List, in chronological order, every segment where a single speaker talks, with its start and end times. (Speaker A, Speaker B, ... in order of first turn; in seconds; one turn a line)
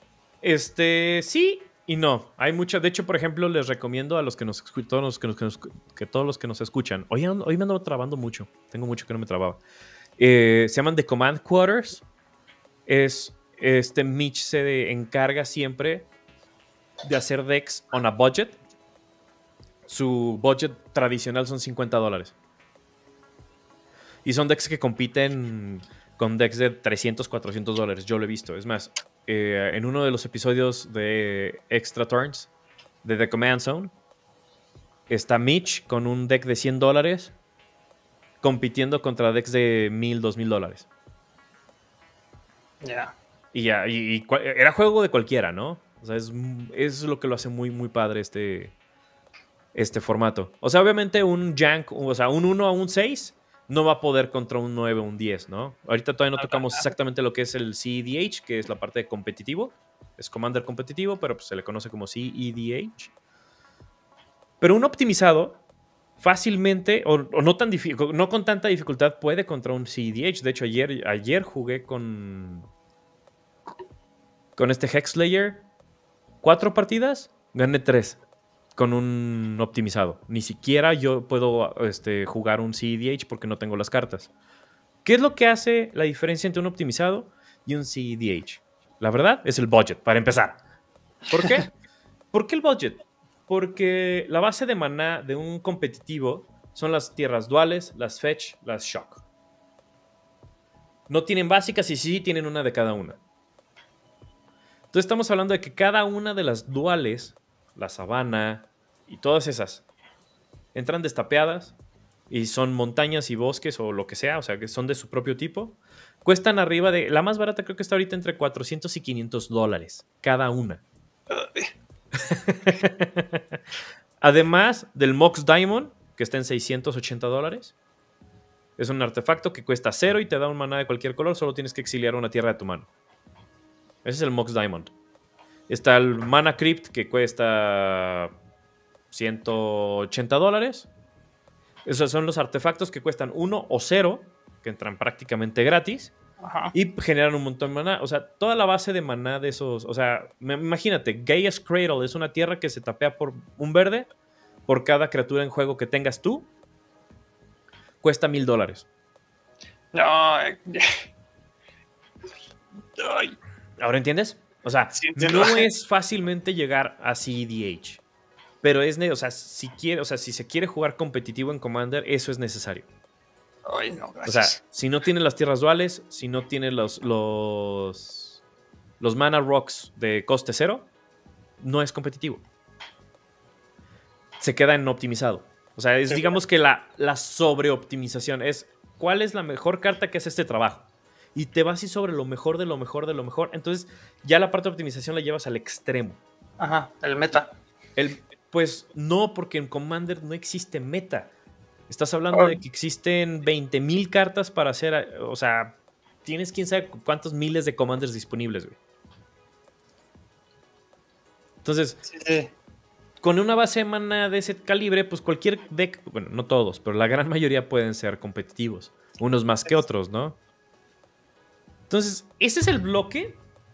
Speaker A: 0.4-9.6
Speaker A: 10.2-12.0
Speaker A: 12.9-16.1
Speaker A: 17.1-18.6
Speaker A: 19.9-22.4
Speaker A: 24.2-32.5
Speaker A: 33.0-33.9
Speaker A: 35.1-37.3
Speaker A: 38.4-40.9
Speaker B: 42.8-43.1
Speaker A: 43.5-48.8
Speaker A: 49.7-63.1
Speaker B: 56.4-56.8
Speaker A: 64.6-65.6
Speaker A: 66.2-72.7
Speaker A: 74.6-75.7
Speaker A: 76.4-78.2
Speaker A: 78.8-84.3
Speaker A: 85.0-90.6
Speaker A: 91.3-91.7
Speaker A: 92.3-99.2
Speaker A: 101.1-103.2
Speaker A: 104.9-109.8
Speaker A: 110.8-111.8
Speaker A: 112.3-120.8
Speaker B: 121.3-121.7
Speaker A: 122.2-123.4
Speaker A: 124.2-127.7
Speaker A: 128.8-132.9
Speaker A: 134.0-134.9
Speaker A: 135.7-138.3
Speaker A: 139.1-140.9
Speaker A: 141.9-146.1
Speaker B: 146.4-146.7
Speaker A: 146.7-154.1
Speaker A: 154.7-156.5
Speaker A: 158.0-158.9
Speaker B: 159.9-161.1
Speaker B: 163.0-163.4
Speaker A: 163.8-168.0
Speaker B: 164.9-165.7
Speaker A: 168.6-172.9
Speaker B: 173.7-174.6
Speaker A: 174.3-178.4
Speaker A: 179.0-180.9
Speaker A: 181.6-182.4
Speaker A: 184.4-196.2
Speaker B: 186.1-186.4
Speaker B: 196.6-197.5
Speaker A: 198.0-201.3
Speaker A: 201.9-208.8
Speaker B: 202.3-202.6
Speaker A: 211.6-212.0
Speaker B: 212.1-212.5
Speaker A: 213.2-220.4
Speaker A: 221.9-223.4